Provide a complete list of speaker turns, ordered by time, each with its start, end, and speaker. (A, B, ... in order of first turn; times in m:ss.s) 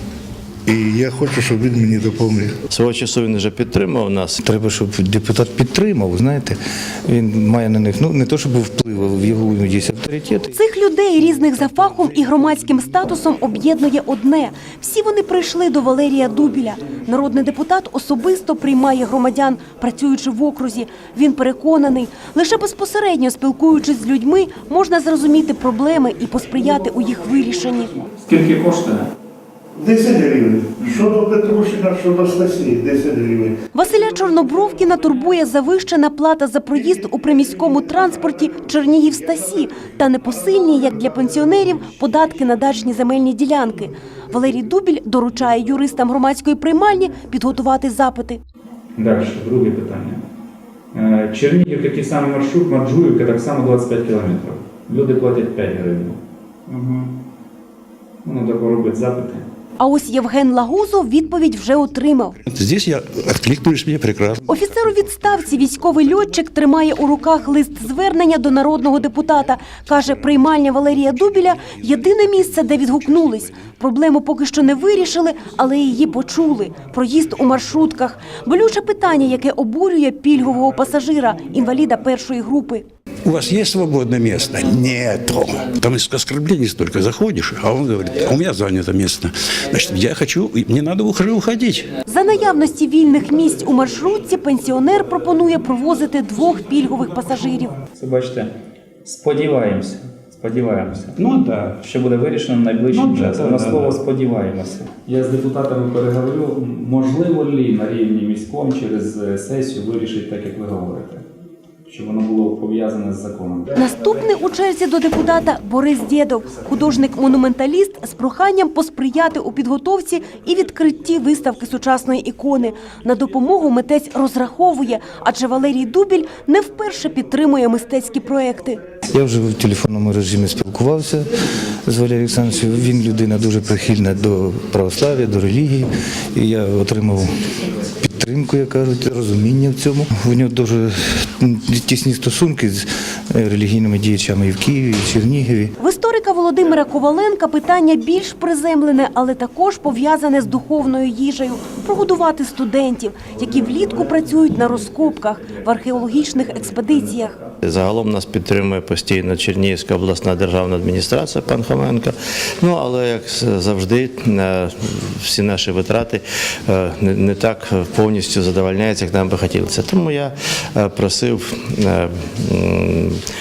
0:00.6-0:02.5 A
0:02.7-0:04.4 B
0:04.4-0:10.5 C
0:10.5-0:27.9 D
0:28.2-0:29.1 E
0:29.7-0:33.6 A
0:33.7-0:48.4 D
0:49.0-0:50.2 E
0:50.9-0:57.1 E
0:58.2-0:59.4 E
0:59.8-1:02.4 D
1:02.5-1:04.4 F
1:04.4-1:22.8 D
1:23.2-1:31.9 F
1:32.0-1:37.8 D
1:37.9-1:38.5 E
1:39.0-1:51.2 E
1:41.2-1:41.7 F
1:42.9-1:43.9 F
1:51.8-1:53.8 E
1:53.8-2:08.8 D
2:09.1-2:11.3 C
2:11.8-2:17.3 C
2:17.8-2:25.7 C
2:25.8-2:37.4 D
2:37.6-2:53.2 B